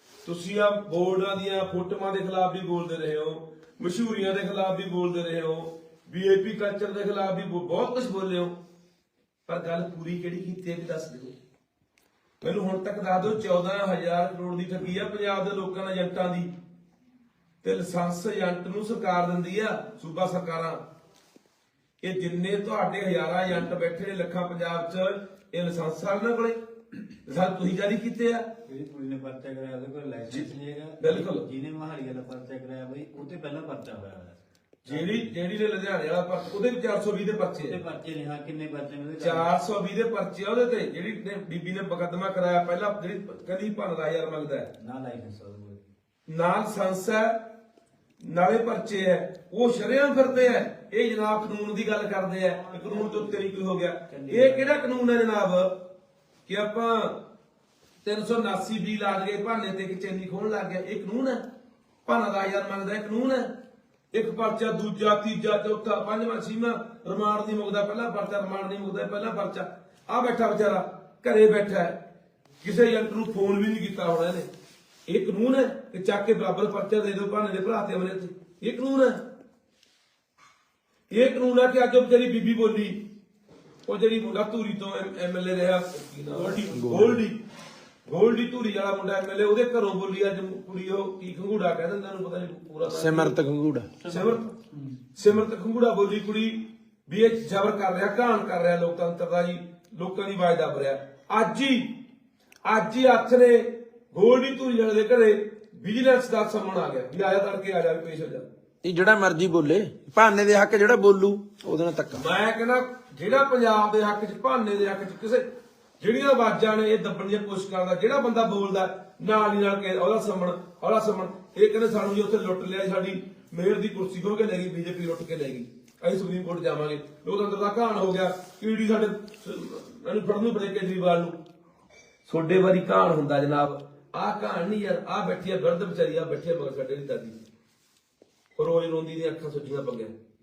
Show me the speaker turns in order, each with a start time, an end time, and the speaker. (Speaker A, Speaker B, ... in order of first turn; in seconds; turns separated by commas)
Speaker A: 0.2-8.6, Speaker A: 9.5-11.3, Speaker A: 12.4-16.5, Speaker A: 17.6-20.8, Speaker A: 22.0-26.6, Speaker A: 27.2-28.5, Speaker B: 28.6-35.3, Speaker A: 31.0-31.4, Speaker A: 34.9-37.8, Speaker B: 37.6-39.5, Speaker A: 39.2-44.7, Speaker B: 44.8-45.8, Speaker A: 46.3-47.5, Speaker A: 48.2-55.9, Speaker B: 54.1-55.1, Speaker A: 56.5-57.2, Speaker A: 58.0-61.5, Speaker A: 62.0-63.5, Speaker A: 64.1-72.0, Speaker A: 72.6-74.5, Speaker A: 75.1-79.2, Speaker A: 81.1-83.0, Speaker A: 83.8-87.4, Speaker C: 86.7-87.2, Speaker A: 88.0-93.4, Speaker C: 92.8-94.0, Speaker A: 94.0-94.5, Speaker A: 95.2-102.0, Speaker A: 102.7-108.5, Speaker C: 108.8-112.2, Speaker A: 112.1-115.5, Speaker A: 116.0-131.4, Speaker A: 132.2-137.4, Speaker A: 138.6-140.1